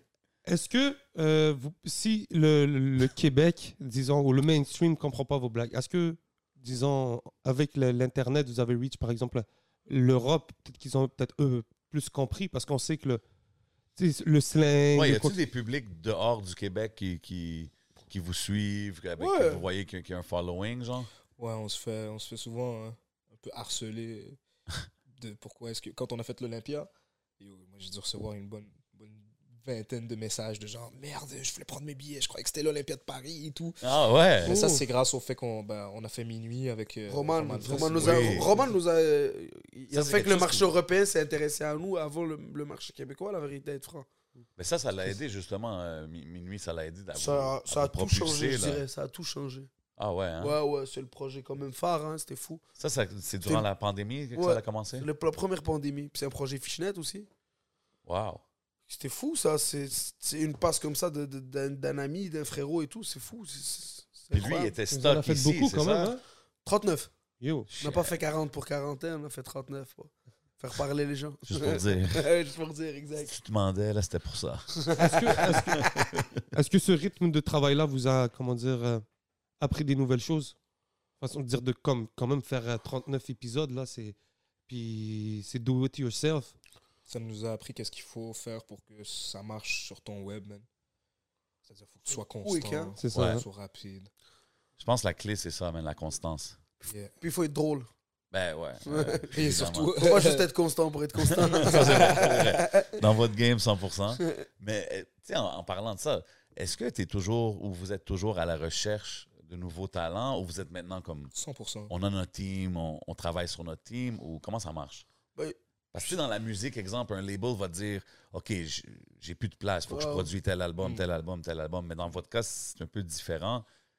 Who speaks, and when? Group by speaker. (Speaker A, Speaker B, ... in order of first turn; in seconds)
Speaker A: 0.5-13.2, 14.0-15.4, 34.5-34.8, 37.6-37.9, 64.9-66.2, 67.4-67.7, 75.0-75.8, 76.5-79.0, 79.6-80.5, 81.2-84.2, 84.7-86.5, 93.0-93.4
Speaker B: 14.9-21.1, 33.8-34.6, 38.0-38.5, 39.9-40.7, 44.6-48.8, 50.0-50.6, 52.8-55.1, 58.1-58.4, 64.3-66.2, 67.7-68.2, 71.5-72.2, 73.2-76.3, 93.1-93.4, 94.8-96.6, 98.3-99.9, 101.3-111.3, 111.9-115.0, 115.9-123.7
Speaker C: 19.2-19.6, 37.1-44.1, 47.1-49.7, 50.4-52.6, 54.4-57.3, 58.9-64.7, 66.6-67.1, 67.8-73.3, 74.8-75.6, 92.1-93.0, 97.2-97.9, 98.9-99.3, 100.0-103.0, 115.3-116.2, 119.9-120.3
Speaker D: 21.4-24.4, 25.2-33.8, 34.4-38.6, 87.1-90.7, 91.7-94.1, 96.8-97.1, 99.3-100.5, 101.6-102.5, 111.3-111.9